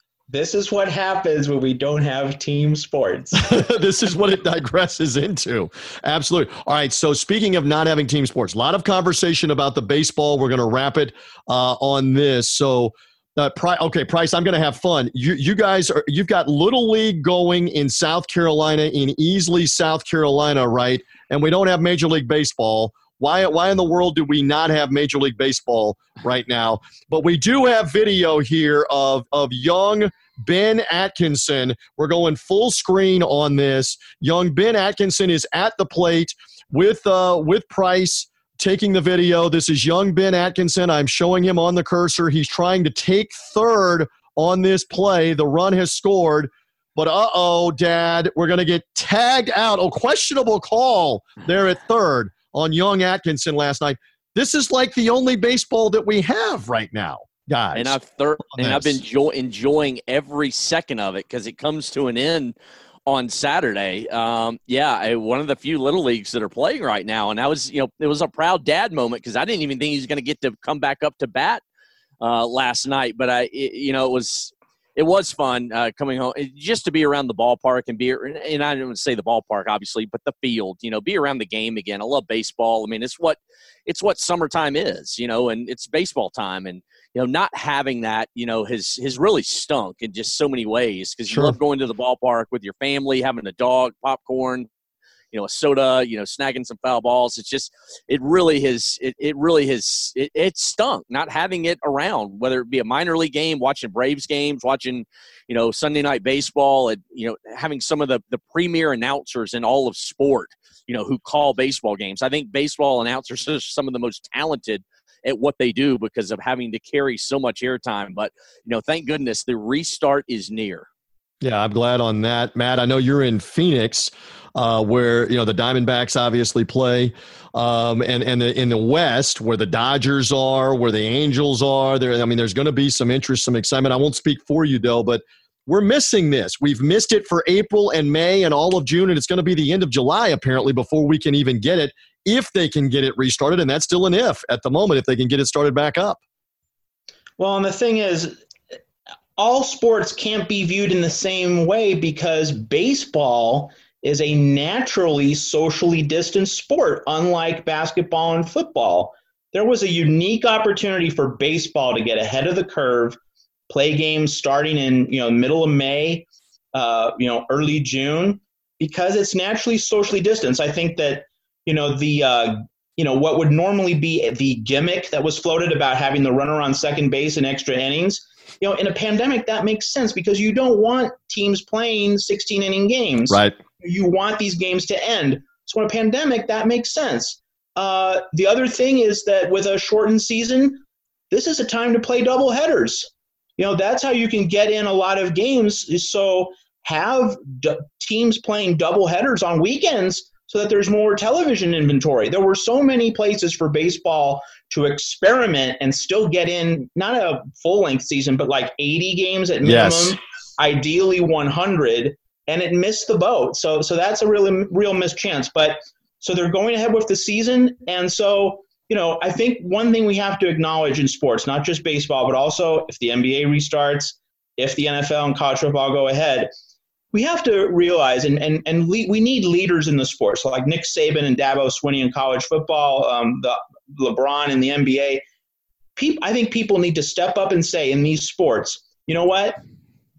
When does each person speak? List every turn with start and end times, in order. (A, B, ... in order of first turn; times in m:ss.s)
0:00.3-0:03.5 A
0:03.4-0:58.0 B
0:57.7-1:11.6 C
0:58.5-0:59.0 B
1:12.2-1:34.7 C
1:31.3-1:31.6 B
1:35.3-2:00.9 C
2:01.4-2:26.2 B
2:27.4-2:28.4 A
2:29.4-2:43.2 A
2:43.7-3:46.5 A
3:03.3-3:03.6 B
3:29.6-3:30.2 B
3:47.1-3:55.2 A
3:56.0-3:59.6 A